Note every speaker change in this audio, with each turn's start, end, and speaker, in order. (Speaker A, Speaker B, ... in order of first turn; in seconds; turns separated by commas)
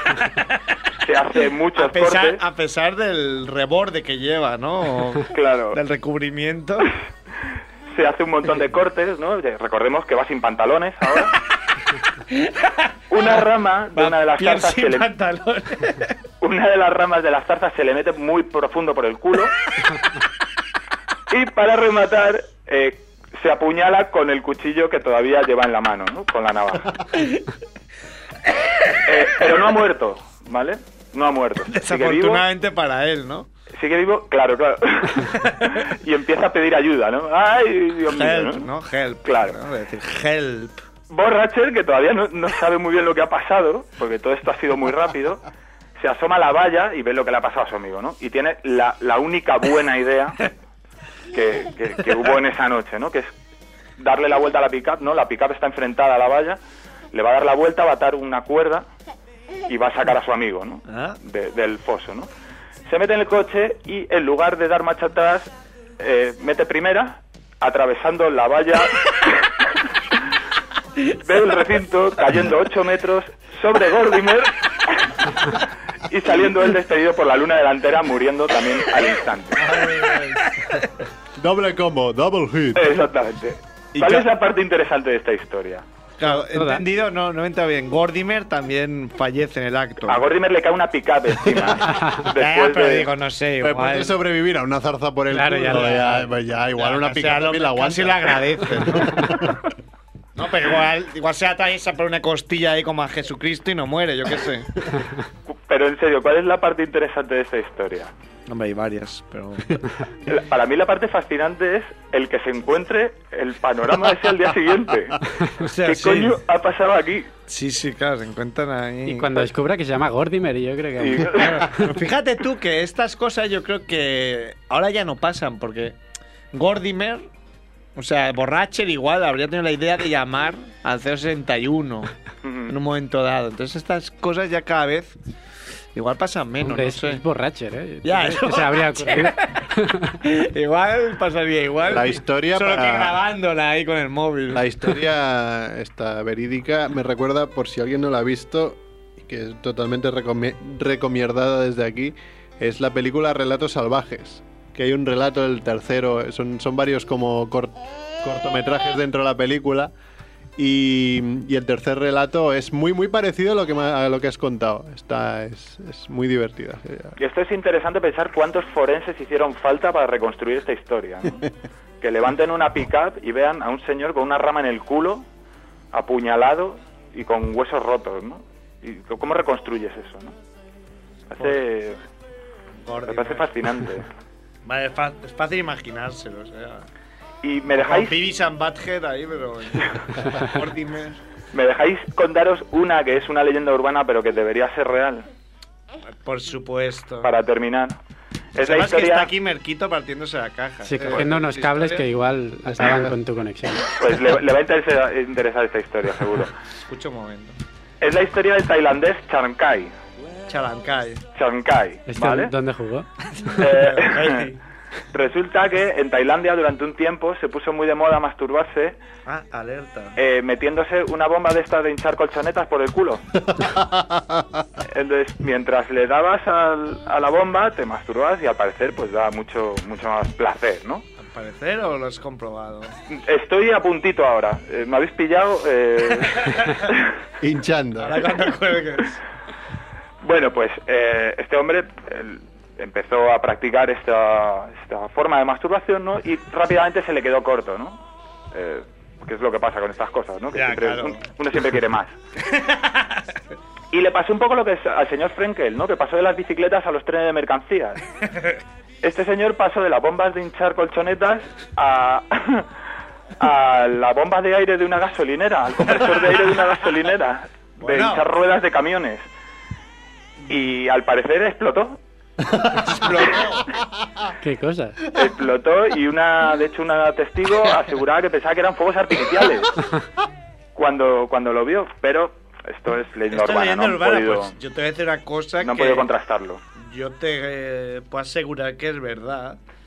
Speaker A: 1.0-2.4, Speaker B: 1.8-6.9, Speaker A: 5.3-5.8, Speaker A: 7.9-11.3, Speaker B: 12.3-13.4, Speaker A: 13.1-15.1, Speaker B: 13.9-16.1, Speaker A: 16.4-19.6, Speaker A: 21.3-27.1, Speaker A: 29.0-32.5, Speaker B: 31.7-33.5, Speaker A: 33.8-38.7, Speaker B: 38.1-40.8, Speaker A: 39.2-39.6, Speaker A: 41.1-45.4, Speaker A: 46.0-50.5, Speaker A: 51.3-53.3, Speaker A: 54.0-56.6, Speaker A: 57.1-58.9, Speaker A: 59.7-62.3, Speaker B: 60.9-61.2, Speaker A: 62.9-69.5, Speaker A: 71.1-75.2, Speaker A: 76.1-79.7, Speaker C: 79.6-80.5, Speaker C: 81.4-82.9, Speaker A: 82.8-85.8, Speaker B: 84.0-84.3, Speaker B: 86.2-90.2, Speaker D: 86.3-86.8, Speaker A: 90.1-93.1, Speaker B: 92.2-94.2, Speaker C: 93.6-99.6, Speaker D: 95.3-96.3, Speaker B: 95.6-96.2, Speaker B: 96.8-99.3, Speaker B: 100.4-104.7, Speaker A: 105.5-108.1, Speaker B: 108.5-109.8, Speaker A: 110.3-115.2, Speaker B: 115.6-116.4, Speaker A: 115.8-117.3, Speaker B: 117.5-119.5, Speaker D: 119.1-121.9, Speaker A: 121.0-121.6, Speaker B: 121.3-126.0, Speaker B: 126.5-127.3, Speaker B: 128.0-132.1, Speaker A: 132.4-132.7, Speaker B: 132.7-135.2, Speaker B: 135.9-137.2, Speaker D: 136.6-140.1, Speaker B: 138.0-139.6, Speaker B: 140.2-144.9, Speaker C: 141.8-143.2, Speaker C: 144.5-159.9, Speaker C: 160.6-167.2, Speaker A: 167.2-171.5, Speaker A: 172.0-175.2, Speaker A: 175.9-180.3, Speaker A: 181.3-182.0, Speaker B: 182.8-183.5, Speaker A: 183.1-184.1, Speaker B: 184.7-186.9, Speaker A: 187.4-188.2, Speaker B: 187.7-191.2, Speaker A: 191.5-195.3, Speaker B: 196.2-197.3, Speaker A: 197.2-198.0, Speaker A: 198.6-199.3, Speaker B: 198.6-202.1, Speaker D: 200.8-203.9, Speaker C: 202.7-203.1, Speaker A: 204.0-206.5, Speaker B: 206.8-207.6, Speaker A: 208.0-209.9, Speaker B: 210.5-211.2, Speaker A: 211.3-212.5, Speaker D: 212.1-213.1, Speaker B: 213.3-214.6, Speaker A: 213.6-214.5, Speaker A: 215.1-219.0, Speaker B: 219.3-220.2, Speaker A: 220.2-223.2, Speaker C: 223.5-224.6, Speaker A: 224.9-231.1, Speaker B: 231.2-232.9, Speaker A: 233.1-237.1, Speaker C: 237.4-238.3, Speaker B: 238.0-239.2, Speaker A: 240.2-248.0, Speaker A: 248.5-252.2, Speaker B: 250.5-251.2, Speaker B: 252.5-253.3, Speaker A: 253.9-258.0, Speaker B: 258.3-258.5, Speaker A: 259.0-262.7, Speaker A: 263.4-269.2, Speaker B: 267.8-268.3, Speaker A: 270.5-272.0, Speaker B: 272.7-273.6, Speaker D: 274.4-275.1, Speaker A: 275.1-279.8, Speaker A: 280.8-284.6, Speaker B: 283.3-286.1, Speaker A: 285.6-286.6, Speaker B: 286.8-289.6